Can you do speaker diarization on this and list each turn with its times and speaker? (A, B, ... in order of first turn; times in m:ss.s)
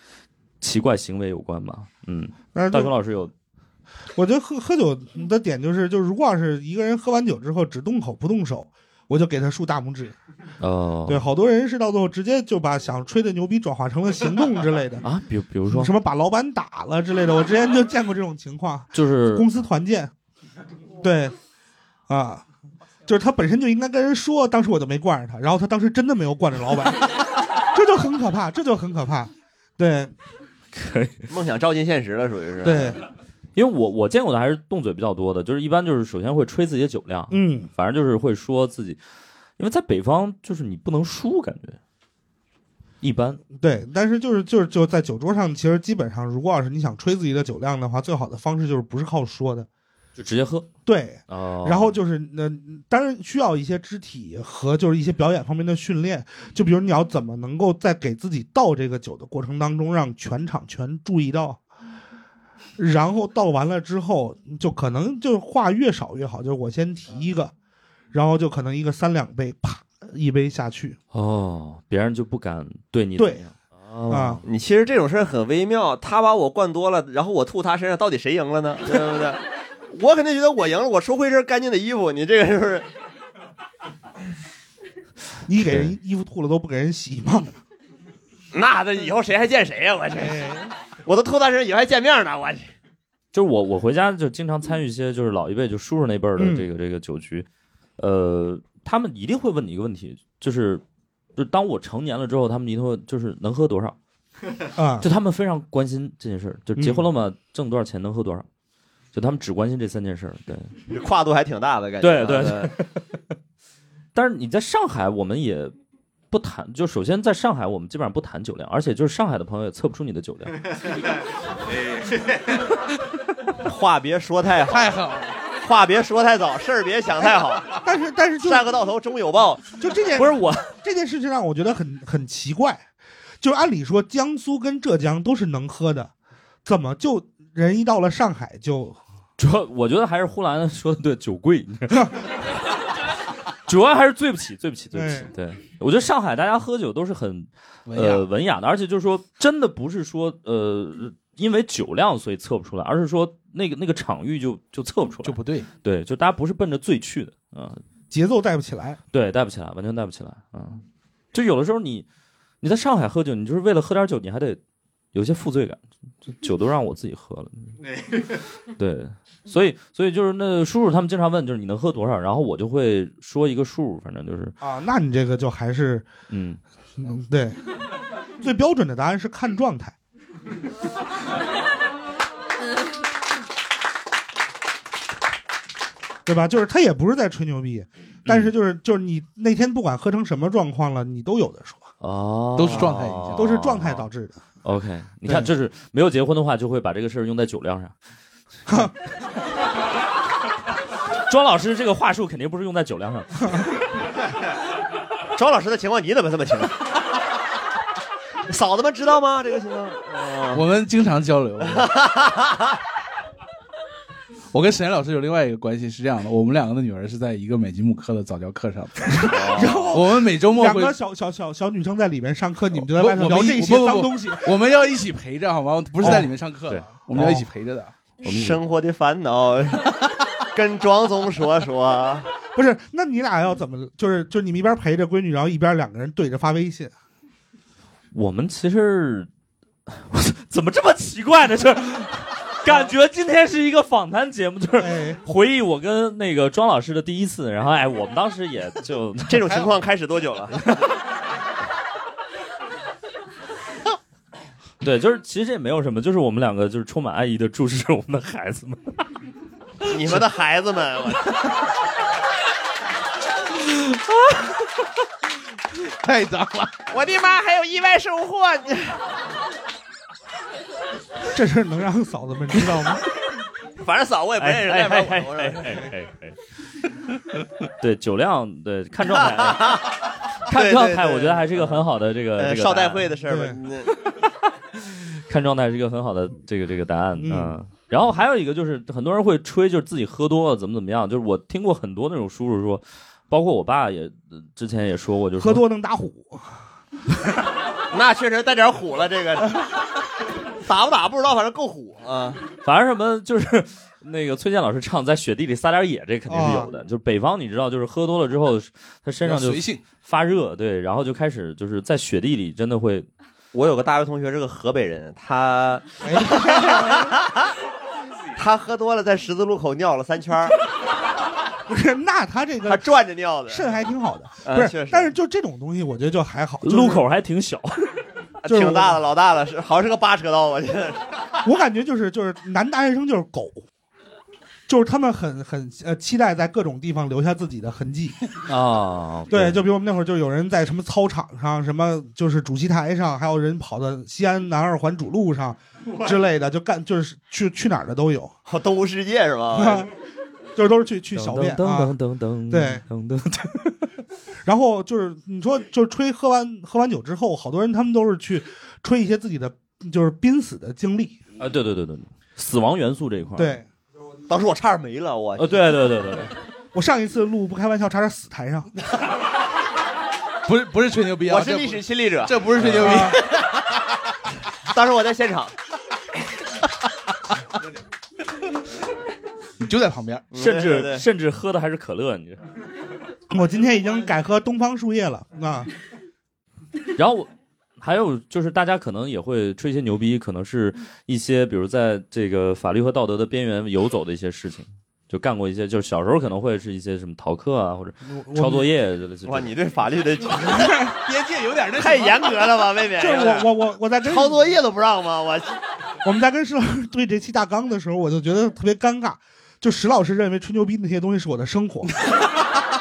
0:00.6-0:03.3 A
0:02.5-0:02.9 B
0:04.2-0:10.2 B
0:10.6-0:11.2 A
0:11.1-0:15.0 B
0:15.0-0:15.9 A
0:15.7-0:20.1 B
0:18.9-0:19.5 A
0:21.0-0:21.3 B
0:22.1-0:22.4 B
0:23.1-0:27.1 B
0:27.7-0:30.1 B
0:30.7-0:31.3 A
0:31.3-0:33.0 C
0:32.6-0:33.0 B
0:33.6-0:39.0 A
0:37.3-0:37.7 B
0:39.6-0:41.8 A
0:43.0-0:43.4 A
0:43.6-0:49.7 B
0:50.2-0:50.7 A
0:50.9-1:01.6 B
0:51.3-0:52.0 A
1:02.8-1:07.5 B
1:08.1-1:11.0 B
1:11.1-1:14.4 A
1:14.1-1:14.4 B
1:14.4-1:22.9 C
1:25.5-1:27.5 B
1:25.7-1:25.9 A
1:28.5-1:30.4 C
1:30.2-1:30.7 B
1:31.0-1:32.7 C
1:33.3-1:37.4 A
1:36.4-1:36.6 B
1:38.0-1:40.8 A
1:41.4-1:44.0 A
1:44.8-1:45.0 B
1:45.0-1:48.4 A
1:46.8-1:47.0 B
1:49.1-1:50.7 A
1:50.9-1:52.7 C
1:52.0-1:53.2 A
1:54.1-1:55.7 A
1:56.3-2:00.6 A
2:03.6-2:05.0 C
2:04.7-2:05.4 D
2:05.6-2:07.8 C
2:07.8-2:08.7 B
2:08.4-2:09.8 C
2:09.8-2:12.8 B
2:10.2-2:10.7 A
2:13.4-2:16.1 B
2:16.6-2:19.0 B
2:19.4-2:22.1 A
2:23.7-2:37.8 A
2:24.9-2:25.3 B
2:27.9-2:28.3 D
2:35.2-2:35.7 D
2:38.1-2:39.0 B
2:39.1-2:42.0 A
2:42.6-2:44.6 A
2:45.1-2:47.8 A
2:48.8-2:54.5 A
2:54.6-2:56.1 B
2:56.3-2:56.6 A
2:57.0-2:57.6 B
2:58.4-2:59.9 B
3:06.2-3:11.8 B
3:08.2-3:08.5 A
3:12.0-3:14.1 A
3:12.6-3:13.5 D
3:13.4-3:14.4 B
3:14.6-3:17.9 A
3:18.7-3:18.9 B
3:21.3-3:23.7 A
3:25.3-3:26.8 C
3:28.5-3:30.6 C
3:30.5-3:31.9 D
3:31.7-3:32.8 C
3:34.5-3:39.4 D
3:39.3-3:39.9 C
3:39.5-3:44.4 B
3:39.9-3:41.0 D
3:42.7-3:47.9 D
3:46.0-3:46.3 B
3:46.0-3:46.9 A
3:48.2-3:48.6 A
3:48.2-3:52.3 C
3:52.6-3:56.9 B
3:58.1-3:59.3 A
3:59.9-4:09.7 A
4:04.8-4:05.2 B
4:09.3-4:10.8 C
4:14.8-4:19.0 A
4:19.8-4:21.4 C
4:25.8-4:26.8 D
4:26.9-4:29.0 C
4:31.3-4:33.0 B
4:33.8-4:35.9 C
4:34.4-4:36.4 A
4:37.8-4:39.9 A
4:39.2-4:41.8 C
4:40.4-4:43.1 A
4:42.4-4:44.0 C
4:43.3-4:43.6 B
4:44.9-4:55.6 A
4:47.2-4:47.6 B
4:55.4-4:56.5 B
4:57.9-4:59.6 C
5:00.6-5:02.4 C
5:02.6-5:13.1 A
5:06.3-5:06.7 B
5:09.2-5:09.8 D
5:13.5-5:17.5 C
5:16.0-5:17.1 B
5:18.4-5:20.6 C
5:21.7-5:22.8 B
5:22.6-5:23.7 C
5:23.5-5:27.0 B
5:24.4-5:25.1 C
5:26.6-5:28.0 A
5:28.4-5:31.1 C
5:28.5-5:29.0 B
5:31.4-5:33.6 B
5:34.7-5:38.2 B
5:38.5-5:39.6 A
5:39.3-5:48.3 B
5:48.4-5:49.9 C
5:49.5-5:49.9 B
5:50.6-5:51.9 B
5:51.1-5:53.9 A
5:52.5-5:52.8 B
5:54.4-6:01.2 B
6:01.4-6:03.6 A
6:03.4-6:03.6 B
6:04.3-6:05.6 C
6:05.4-6:06.3 A
6:06.7-6:08.7 B
6:10.4-6:13.5 D
6:11.2-6:13.0 C
6:12.8-6:13.2 B
6:14.7-6:15.5 C
6:19.6-6:20.2 D
6:20.3-6:21.0 C
6:20.3-6:22.4 A
6:23.3-6:25.7 B
6:27.0-6:27.3 A
6:27.8-6:39.6 A
6:38.0-6:38.7 B
6:39.2-6:40.8 C
6:41.0-6:42.5 D
6:41.8-6:43.5 C
6:43.0-6:44.4 B
6:44.0-6:45.6 C
6:46.0-6:51.9 B